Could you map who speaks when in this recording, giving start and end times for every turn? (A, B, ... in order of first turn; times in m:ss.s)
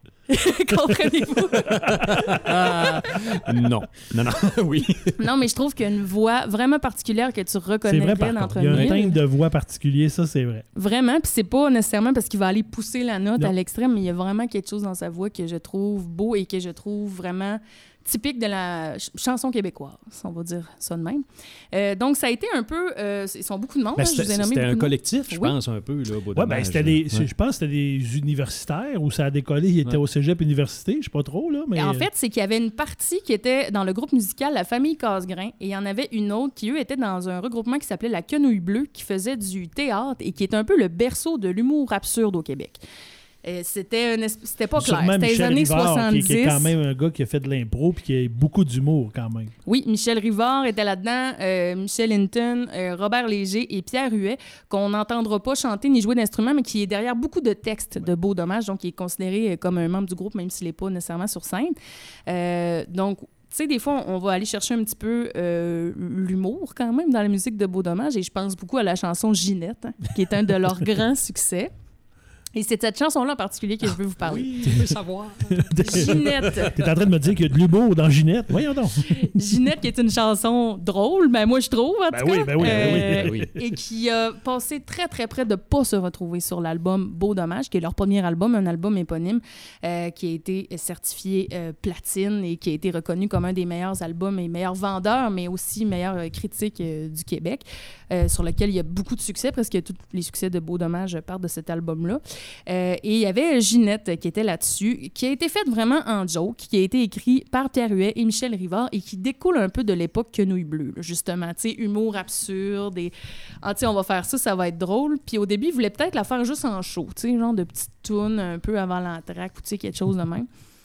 0:00.3-0:02.0 A
0:01.8-0:02.3 B
0:01.9-0:05.2 C
0:05.2-0:09.2 A
0:07.8-0:10.6 B
0:08.7-0:08.9 C
0:10.8-0:25.6 A
0:24.0-0:27.3 C
0:26.3-0:32.1 B
0:31.7-0:42.8 A
0:43.4-0:46.7 A
0:44.8-0:49.5 B
0:49.6-1:01.7 A
1:02.3-1:11.7 A
1:12.5-1:14.6 A
1:14.2-1:16.5 C
1:14.7-1:14.9 B
1:15.5-1:19.6 B
1:15.8-1:16.7 A
1:19.1-2:00.5 A
1:22.1-1:23.5 B
1:22.6-1:23.5 C